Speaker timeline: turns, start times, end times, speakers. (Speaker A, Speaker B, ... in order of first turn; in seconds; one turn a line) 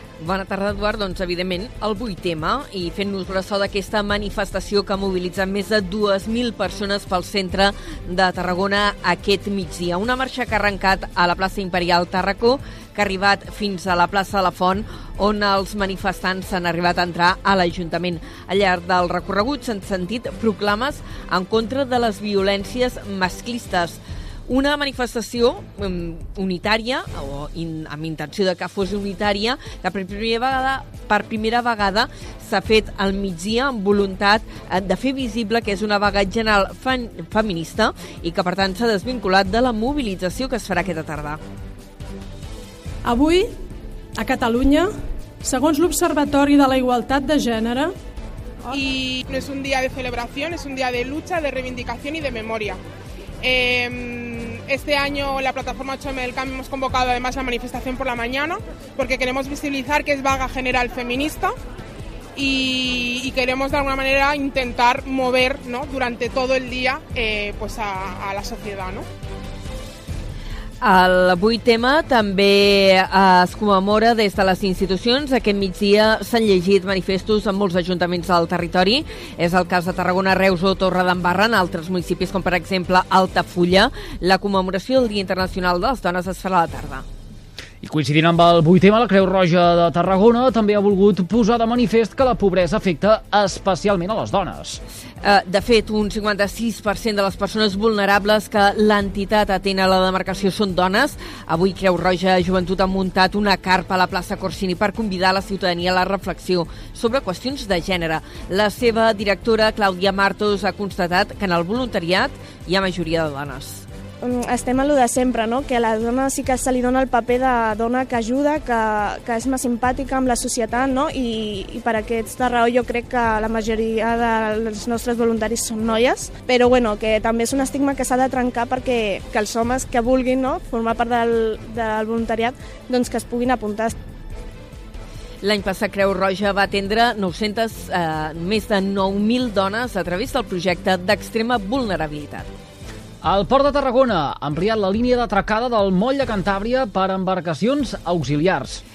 Speaker A: 0.2-41.4
Speaker B: 43.0-43.5
Speaker B: 44.2-44.9
Speaker B: 45.4-47.9
Speaker C: 48.7-52.8
Speaker C: 53.4-61.5
Speaker C: 62.4-69.0
Speaker A: 70.8-87.0
Speaker D: 87.8-94.8
Speaker A: 95.2-113.8
Speaker E: 114.2-133.9
Speaker A: 135.4-142.5
Speaker D: 143.2-148.8